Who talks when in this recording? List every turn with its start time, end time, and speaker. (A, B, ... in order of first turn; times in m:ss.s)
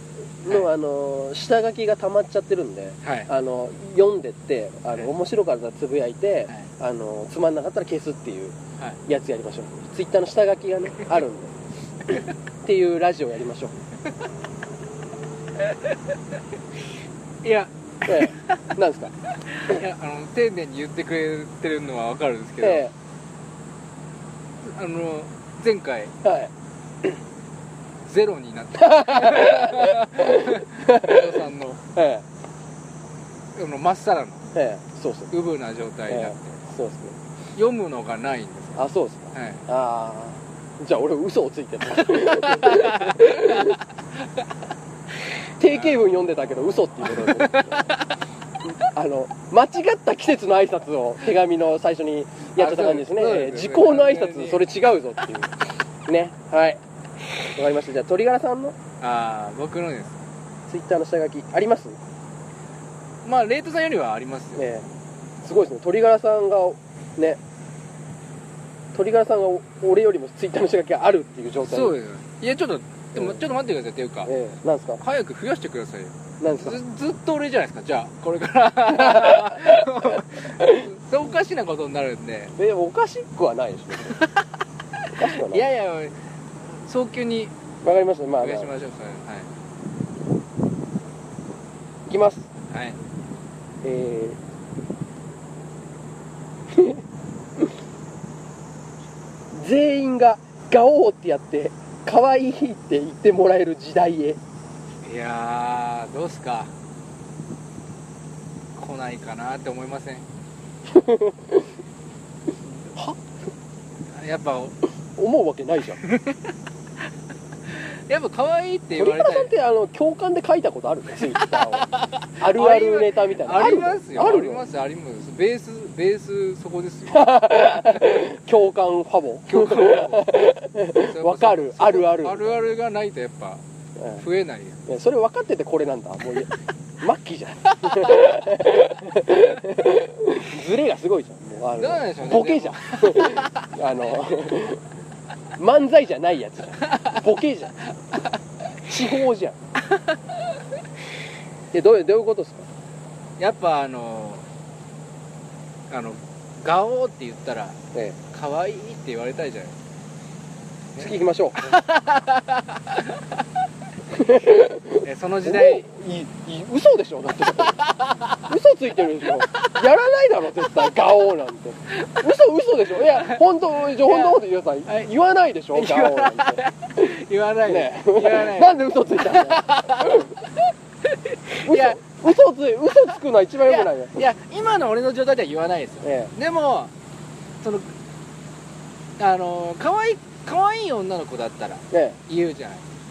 0:00.4-0:11.5 A
0:03.0-0:03.3 B
0:12.1-0:13.7 A
0:17.4-0:18.8 B
0:18.0-0:19.1 A
0:19.4-0:22.9 B
0:22.6-0:22.9 A
0:24.6-0:26.1 B
0:26.2-0:26.5 A
0:28.0-0:31.8 B
0:28.8-0:31.4 A
0:31.9-0:32.2 A
0:33.6-0:34.5 B
0:34.5-0:35.3 A
0:35.3-0:36.6 B
0:36.1-0:37.2 A
0:37.6-0:39.6 B
0:38.8-0:43.8 A
0:42.4-0:44.4 B
0:45.6-0:47.9 A
0:45.7-0:46.3 B
0:47.0-0:48.0 B
0:48.7-0:56.8 A
0:52.6-0:54.7 B
0:57.4-0:58.8 A
0:59.0-1:00.2 B
1:00.7-1:02.0 A
1:03.2-1:04.6 B
1:04.6-1:04.9 A
1:05.4-1:07.4 A
1:08.9-1:11.9 A
1:11.6-1:14.3 B
1:13.2-1:13.4 A
1:14.2-1:15.0 A
1:15.0-1:22.6 B
1:16.4-1:16.8 A
1:18.9-1:20.9 A
1:22.6-1:24.2 A
1:24.1-1:24.5 B
1:25.0-1:26.2 B
1:25.2-1:25.6 A
1:26.7-1:27.5 B
1:27.8-1:28.7 A
1:28.4-1:29.5 B
1:32.1-1:32.5 A
1:32.7-1:33.0 B
1:33.8-1:34.4 A
1:36.7-1:37.0 A
1:39.5-1:44.4 A
1:45.0-1:46.7 B
1:48.7-1:50.2 B
1:50.9-1:51.7 A
1:54.1-1:54.8 B
1:55.2-1:56.0 A
1:56.0-1:56.5 B
1:57.7-1:59.5 B
1:58.9-2:04.6 A
2:01.3-2:08.2 B
2:07.1-2:12.8 A
2:09.5-2:13.6 B
2:14.0-2:14.2 A
2:14.2-2:14.8 B
2:14.9-2:24.8 A
2:17.8-2:18.3 B
2:21.8-2:23.7 B
2:25.6-2:27.8 A
2:28.8-2:29.6 A
2:31.7-2:32.7 A
2:33.4-2:34.5 B
2:35.9-2:37.8 B
2:37.9-2:38.2 A
2:38.3-2:39.8 B
2:41.0-2:43.4 B
2:41.0-2:41.8 A
2:44.1-2:57.1 A
2:45.0-2:45.9 B
2:47.6-2:48.5 B
2:49.2-2:49.8 B
2:52.0-2:52.3 B
2:53.0-2:55.1 B
2:55.7-3:02.0 B
2:57.6-3:00.4 A
3:01.6-3:04.2 A
3:03.6-3:06.9 B
3:06.0-3:06.3 A
3:07.6-3:07.9 B
3:09.2-3:12.9 B
3:11.9-3:12.2 A